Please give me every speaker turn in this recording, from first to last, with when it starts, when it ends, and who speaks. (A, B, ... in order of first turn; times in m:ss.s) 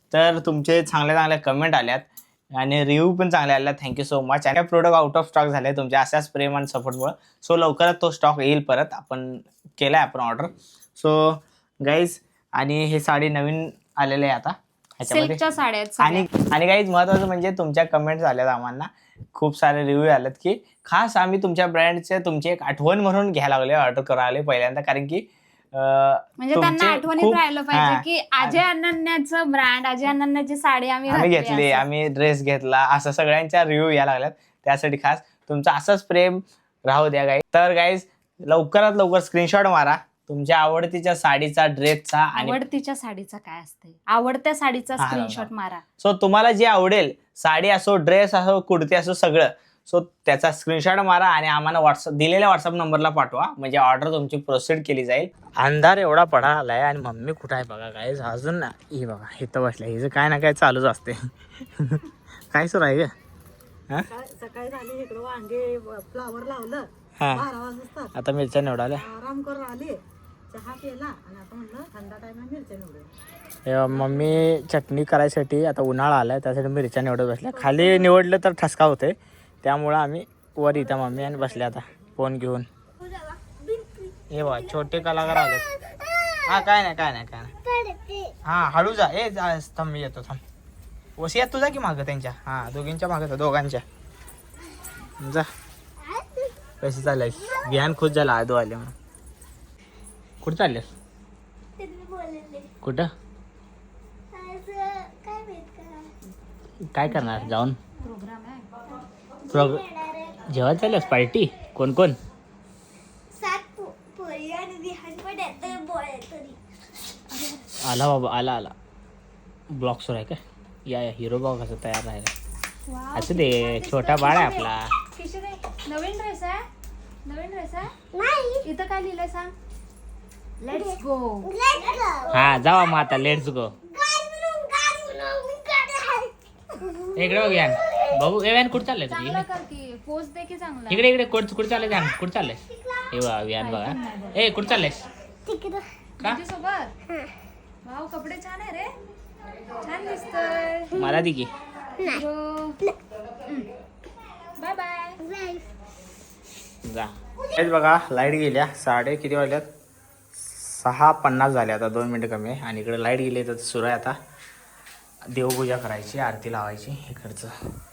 0:00.1-0:15.4 A
0:15.0-0:16.3 B
0:16.0-0:28.6 A
0:26.4-0:31.8 B
0:31.1-0:42.6 A
0:42.3-0:45.8 B
0:45.0-0:45.5 A
0:46.0-1:03.1 A
1:04.1-1:08.1 C
1:07.2-1:07.4 A
1:08.1-1:09.0 A
1:08.9-1:13.1 C
1:13.6-1:22.7 A
1:14.0-1:14.3 C
1:17.5-1:18.1 C
1:21.0-1:21.5 C
1:23.0-1:26.7 D
1:24.3-1:25.6 A
1:26.4-1:27.5 A
1:27.6-1:28.4 D
1:28.4-1:30.4 A
1:31.2-1:33.8 A
1:35.2-1:35.5 A
1:36.0-1:36.5 D
1:36.8-1:38.9 A
1:37.3-1:37.8 D
1:40.4-1:40.9 A
1:41.8-1:42.7 D
1:42.8-1:43.1 A
1:44.3-1:46.2 D
1:46.9-1:47.8 A
1:47.0-1:48.7 B
1:48.9-1:50.5 D
1:49.5-1:49.8 A
1:50.5-1:52.2 A
1:53.3-1:56.6 D
1:57.3-1:57.7 B
1:57.8-1:58.7 A
1:59.7-2:02.3 A
2:02.8-2:06.6 B
2:03.1-2:04.9 A
2:07.2-2:07.9 B
2:08.1-2:08.7 D
2:08.6-2:09.5 B
2:10.6-2:11.5 B
2:10.7-2:18.2 D
2:12.3-2:13.7 A
2:17.2-2:19.4 A
2:19.1-2:21.1 B
2:20.9-2:22.6 A
2:22.6-2:23.2 D
2:23.1-2:25.0 A
2:23.6-2:24.6 B
2:25.4-2:25.9 D
2:26.2-2:26.9 B
2:27.8-2:28.9 B
2:29.8-2:31.0 B
2:31.0-2:31.5 A
2:32.0-2:32.8 B
2:34.6-2:35.2 B
2:35.2-2:35.7 D
2:36.8-2:39.7 A
2:40.4-2:44.2 A
2:45.2-2:47.6 A